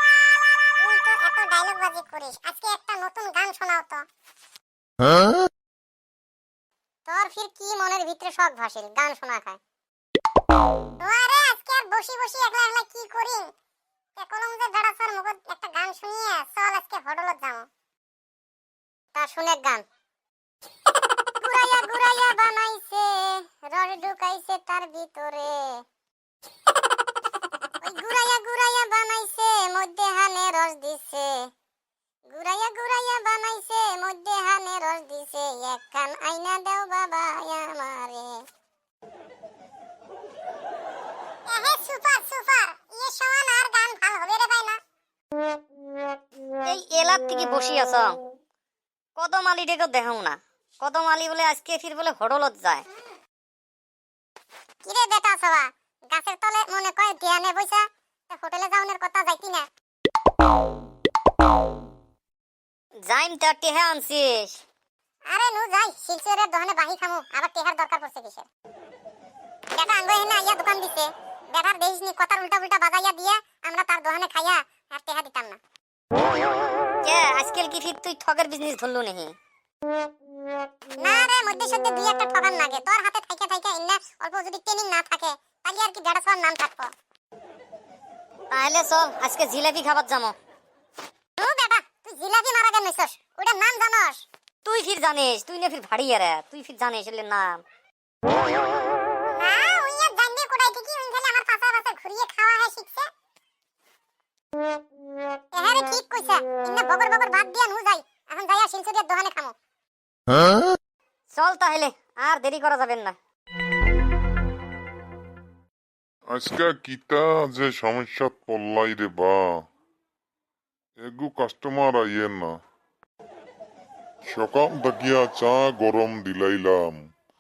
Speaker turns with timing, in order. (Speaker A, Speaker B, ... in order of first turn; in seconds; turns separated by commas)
Speaker A: 0.8-4.0, Speaker A: 7.1-9.6, Speaker A: 11.0-13.5, Speaker A: 14.2-17.6, Speaker A: 19.1-19.8, Speaker A: 21.4-25.8, Speaker A: 27.8-31.5, Speaker A: 32.3-38.4, Speaker A: 41.5-44.8, Speaker B: 46.6-48.2, Speaker B: 49.2-52.8, Speaker A: 54.8-59.7, Speaker B: 63.1-64.6, Speaker A: 65.3-68.5, Speaker A: 69.7-75.6, Speaker B: 77.0-79.3, Speaker A: 81.0-86.9, Speaker B: 88.5-90.3, Speaker A: 91.4-94.2, Speaker B: 94.6-97.6, Speaker A: 99.2-103.1, Speaker A: 105.5-109.5, Speaker B: 111.3-113.1, Speaker C: 116.3-119.6, Speaker C: 121.0-122.5, Speaker C: 124.2-127.0